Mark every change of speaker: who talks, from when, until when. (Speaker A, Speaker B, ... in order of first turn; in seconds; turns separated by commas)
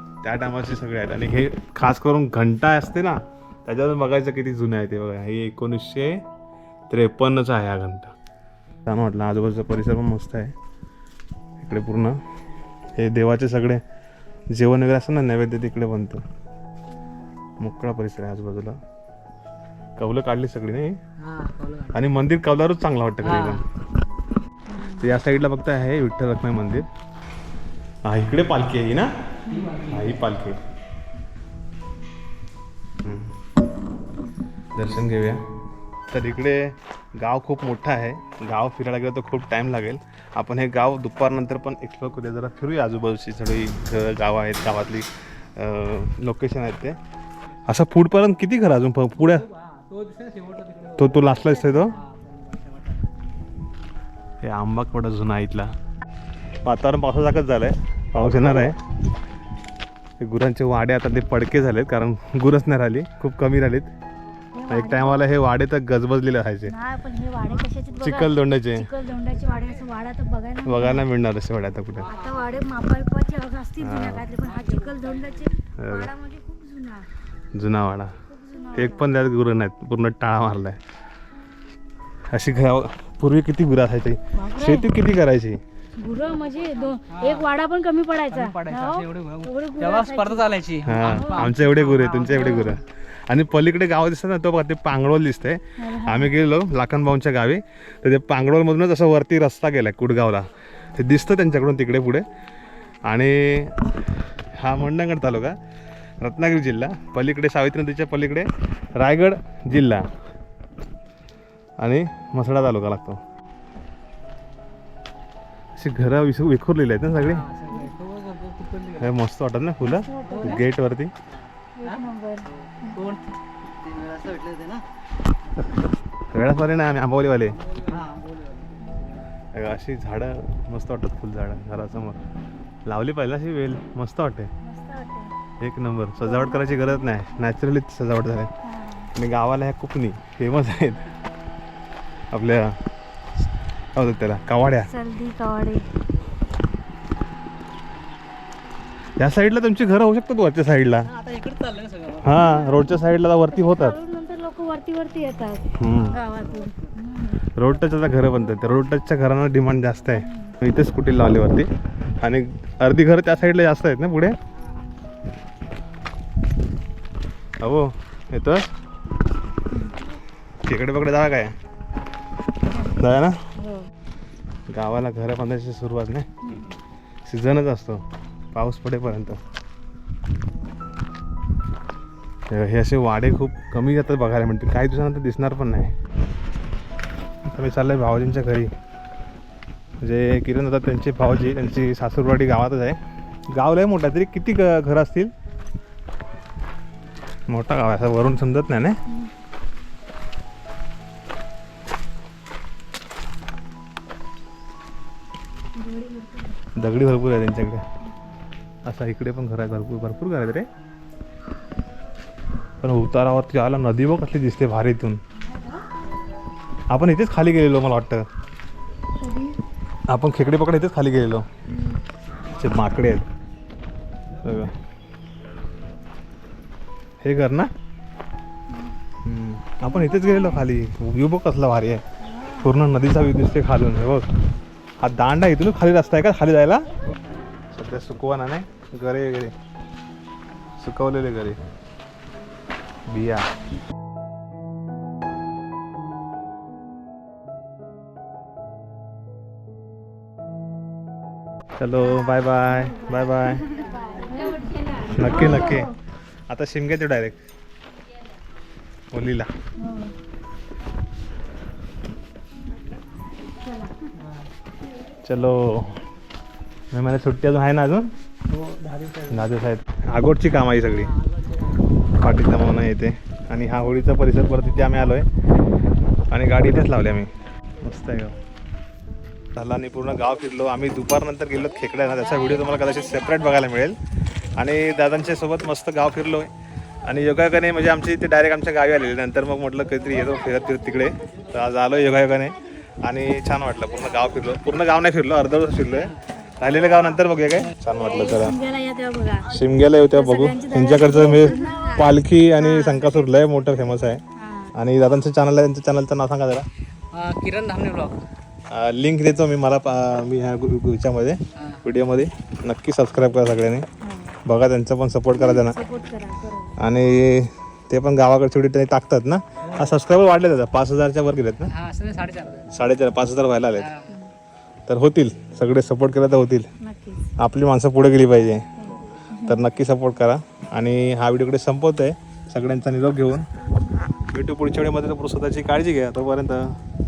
Speaker A: 0.2-6.2, Speaker A: 6.9-8.1, Speaker A: 8.9-10.5, Speaker A: 11.6-12.2, Speaker A: 13.0-13.8, Speaker A: 14.5-16.2, Speaker A: 17.6-18.8, Speaker A: 20.0-21.0, Speaker B: 21.2-22.0, Speaker A: 21.9-23.6, Speaker B: 23.2-23.6, Speaker C: 24.7-25.1, Speaker A: 25.0-26.9, Speaker A: 28.1-29.1, Speaker C: 29.4-29.8, Speaker B: 29.5-30.2, Speaker A: 29.9-30.6, Speaker A: 33.0-33.3, Speaker A: 34.8-35.4, Speaker A: 36.1-47.0, Speaker A: 47.7-49.5, Speaker B: 49.1-53.1, Speaker A: 51.0-52.0, Speaker C: 51.6-52.0, Speaker A: 54.4-55.7, Speaker A: 56.6-58.8, Speaker A: 60.2-63.9, Speaker C: 64.5-65.3, Speaker A: 64.7-66.8, Speaker C: 66.7-71.1, Speaker A: 68.0-68.9, Speaker A: 70.6-72.1, Speaker B: 72.0-72.5, Speaker C: 72.0-77.1, Speaker A: 73.8-74.3, Speaker B: 74.4-75.5, Speaker A: 75.8-76.1, Speaker A: 77.5-78.2, Speaker C: 78.3-79.1, Speaker A: 78.7-80.8, Speaker A: 82.3-85.6, Speaker C: 84.3-84.9, Speaker C: 86.0-91.5, Speaker B: 86.2-87.5, Speaker B: 88.3-92.8, Speaker A: 90.9-102.3, Speaker C: 92.4-92.7, Speaker C: 95.8-96.3, Speaker A: 103.1-103.9, Speaker A: 104.6-105.6, Speaker A: 106.2-110.1, Speaker A: 111.8-113.2, Speaker A: 115.8-117.4, Speaker B: 117.2-119.1, Speaker A: 119.0-121.1, Speaker C: 119.8-120.7, Speaker B: 120.2-120.6, Speaker B: 121.3-123.3, Speaker C: 121.8-123.2, Speaker B: 123.8-124.8, Speaker A: 126.3-127.6, Speaker B: 127.6-129.2, Speaker A: 129.5-132.2, Speaker A: 132.9-134.5, Speaker C: 134.6-135.3, Speaker A: 135.6-138.5, Speaker C: 136.2-137.3, Speaker C: 138.6-139.1, Speaker A: 139.1-141.1, Speaker A: 142.3-142.8, Speaker A: 143.9-144.9, Speaker C: 144.8-145.9, Speaker A: 149.2-151.1, Speaker B: 151.1-152.4, Speaker A: 152.2-153.9, Speaker C: 152.3-157.4, Speaker A: 155.8-156.2, Speaker B: 156.0-157.0, Speaker A: 157.6-161.7, Speaker C: 160.1-160.6, Speaker A: 162.2-164.4, Speaker B: 164.6-164.8, Speaker A: 167.6-168.7, Speaker C: 169.7-170.0, Speaker A: 170.6-171.5, Speaker C: 172.7-173.0, Speaker A: 172.9-173.4, Speaker C: 173.6-173.9, Speaker A: 174.7-176.4, Speaker C: 176.4-176.7, Speaker A: 177.2-179.4, Speaker A: 182.5-185.9, Speaker A: 187.4-188.7, Speaker A: 190.0-193.0, Speaker A: 193.5-195.3, Speaker A: 197.5-199.0, Speaker C: 205.7-206.6, Speaker A: 206.8-207.8, Speaker A: 208.9-210.7, Speaker A: 212.8-215.2, Speaker C: 215.3-215.8, Speaker A: 216.9-218.2, Speaker C: 219.2-219.6, Speaker A: 220.1-221.5, Speaker C: 221.7-222.0, Speaker A: 222.5-223.3, Speaker A: 224.4-224.7, Speaker A: 227.2-227.7, Speaker C: 228.7-228.9, Speaker A: 229.2-232.0, Speaker C: 229.8-230.7, Speaker C: 232.2-232.7, Speaker A: 232.6-234.3, Speaker A: 235.0-236.9, Speaker A: 237.7-239.6, Speaker A: 240.8-241.6, Speaker A: 243.1-243.5, Speaker A: 251.8-253.6, Speaker C: 252.0-255.9, Speaker A: 255.1-255.9, Speaker A: 256.5-257.4, Speaker A: 259.1-259.5, Speaker C: 259.8-260.1, Speaker C: 263.5-264.1, Speaker B: 264.2-264.5, Speaker A: 265.2-266.0, Speaker A: 266.9-268.1, Speaker B: 268.5-269.5, Speaker A: 269.3-271.1, Speaker B: 271.0-271.9, Speaker A: 272.2-275.3, Speaker A: 276.3-278.4, Speaker A: 279.6-283.9, Speaker A: 284.6-286.5, Speaker A: 287.1-298.6, Speaker C: 297.9-303.1, Speaker A: 299.5-304.2, Speaker C: 304.3-304.8, Speaker A: 304.7-306.6, Speaker B: 307.1-308.1, Speaker A: 308.7-313.9, Speaker B: 311.6-311.8, Speaker C: 314.0-314.4, Speaker A: 314.4-315.8, Speaker C: 315.3-316.8, Speaker A: 316.8-321.7, Speaker B: 321.7-322.7, Speaker A: 322.7-323.9, Speaker B: 323.8-324.1, Speaker A: 324.9-326.7, Speaker C: 326.8-327.3, Speaker A: 327.4-328.7, Speaker C: 328.8-329.6, Speaker A: 329.4-333.4, Speaker A: 334.3-336.8